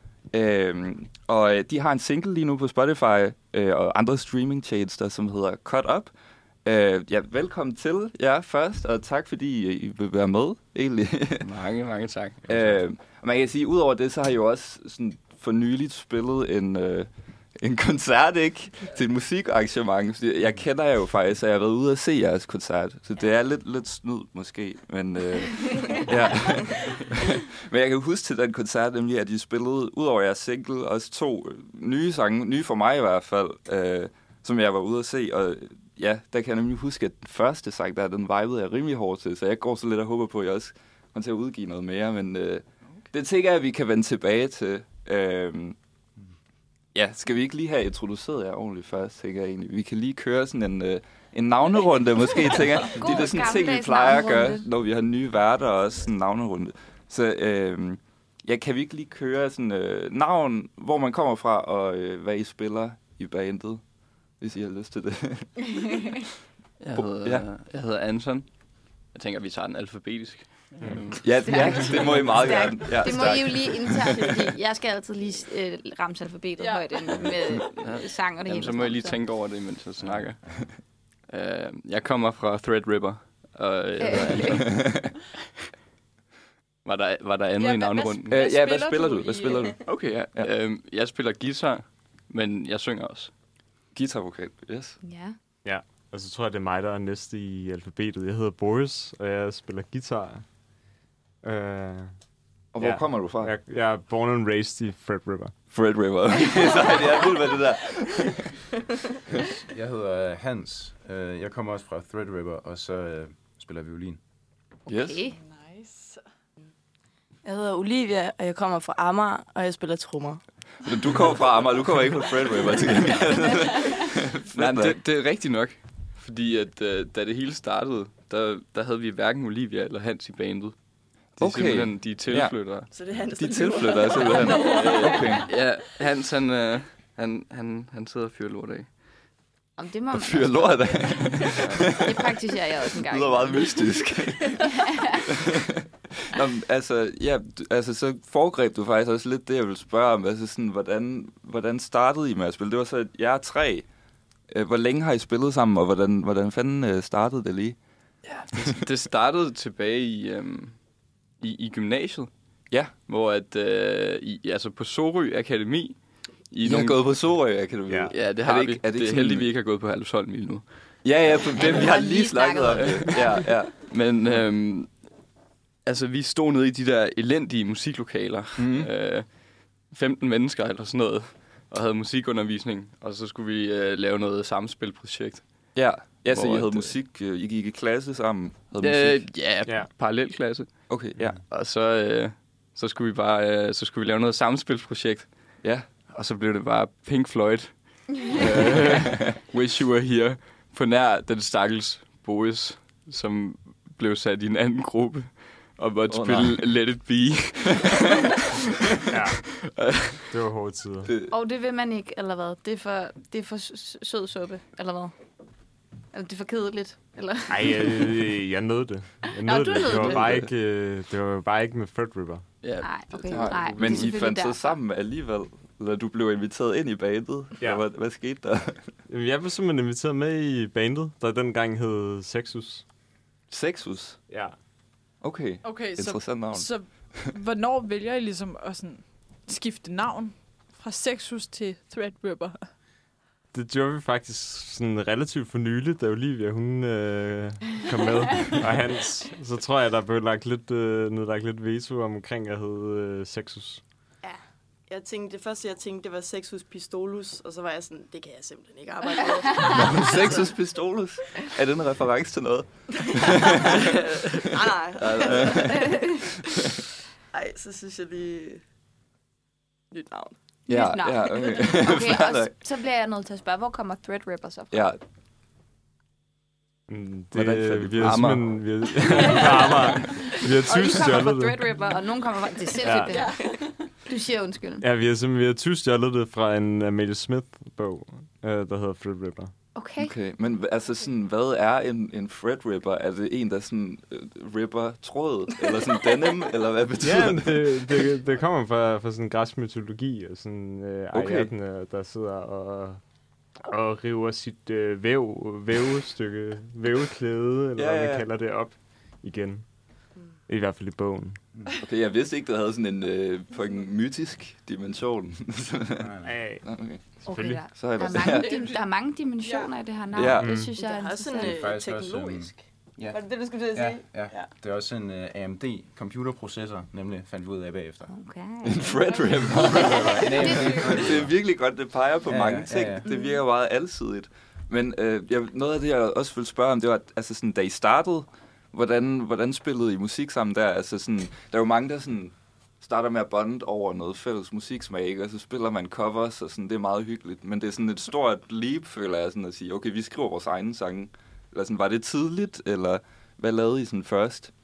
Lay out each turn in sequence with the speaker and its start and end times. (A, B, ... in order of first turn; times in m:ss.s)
0:00.3-0:11.4 A
0:11.4-0:12.6 B
0:12.5-0:27.0 A
0:12.5-0:12.8 C
0:27.6-0:45.8 A
0:46.9-1:06.0 A
0:52.9-0:54.7 D
1:05.7-1:06.2 D
1:06.8-1:11.3 B
1:06.9-1:07.5 A
1:11.2-1:14.4 A
1:11.3-1:19.3 D
1:16.6-1:17.4 E
1:17.7-1:25.0 B
1:20.0-1:20.4 C
1:24.0-1:24.8 D
1:24.6-1:25.0 A
1:26.8-1:28.4 B
1:27.6-1:29.7 E
1:28.3-1:30.5 A
1:29.8-1:33.3 B
1:33.9-1:35.0 A
1:35.0-1:35.4 D
1:35.6-1:40.7 F
1:41.4-1:45.6 F
1:42.7-1:43.5 A
1:45.7-1:48.6 A
1:49.7-1:54.2 C
1:54.9-1:55.2 A
1:54.9-1:55.4 D
1:55.3-1:56.2 E
1:57.4-2:00.4 G
2:00.8-2:05.0 A
2:04.5-2:13.0 B
2:11.4-2:12.8 A
2:12.8-2:15.5 G
2:13.3-2:15.4 A
2:14.6-2:19.4 B
2:19.8-2:21.2 D
2:20.1-2:22.1 A
2:21.4-2:21.9 B
2:22.0-2:25.2 D
2:23.0-2:24.7 A
2:26.3-2:33.9 A
2:34.5-2:37.8 A
2:38.2-2:47.4 B
2:42.7-2:42.9 A
2:46.6-2:49.5 A
2:47.9-2:48.2 F
2:48.1-2:51.1 B
2:51.0-2:54.4 A
2:51.3-2:53.7 D
2:52.7-2:55.3 B
2:55.8-3:07.0 B
2:58.6-2:58.9 A
3:05.7-3:09.3 A
3:08.8-3:28.6 B
3:09.6-3:09.9 F
3:10.9-3:11.4 A
3:11.2-3:11.4 F
3:15.6-3:15.9 A
3:26.1-3:27.1 A
3:29.1-3:29.4 F
3:29.8-3:30.2 B
3:30.2-3:31.1 F
3:31.1-3:31.3 A
3:31.3-3:38.1 D
3:37.5-3:42.5 F
3:39.4-3:40.4 D
3:40.2-3:40.5 A
3:42.6-3:44.2 B
3:42.8-3:44.8 D
3:43.3-3:48.9 A
3:49.1-3:52.9 F
3:53.5-3:54.2 A
3:54.3-3:54.6 F
3:55.2-3:57.3 A
3:55.6-4:02.7 E
4:03.5-4:13.8 F
4:14.2-4:20.6 G
4:19.8-4:23.2 A
4:22.9-4:23.3 G
4:23.9-4:26.2 G
4:25.0-4:26.1 A
4:25.5-4:26.2 D
4:27.3-4:28.6 G
4:29.9-4:30.4 G
4:30.7-4:32.6 A
4:30.7-4:34.9 D
4:34.7-4:35.0 A
4:36.9-4:41.6 F
4:37.3-4:38.4 A
4:38.0-4:38.6 B
4:39.1-4:40.0 G
4:40.7-4:44.8 D
4:42.7-4:44.0 G
4:42.8-4:43.8 F
4:44.8-4:49.6 F
4:49.8-4:50.2 D
4:50.0-4:57.9 A
4:57.0-5:11.4 F
5:01.1-5:01.5 A
5:07.8-5:08.2 A
5:11.8-5:16.1 A
5:16.0-5:16.4 C
5:16.2-5:17.7 F
5:16.6-5:18.5 A
5:17.2-5:21.6 D
5:18.2-5:19.8 E
5:20.1-5:20.6 A
5:20.4-5:20.7 F
5:20.6-5:24.5 G
5:21.4-5:28.2 C
5:28.1-5:29.0 D
5:28.6-5:54.5 A
5:29.0-5:31.0 E
5:29.6-5:31.0 D
5:30.0-5:31.6 C
5:32.2-5:33.0 C
5:33.1-5:33.4 D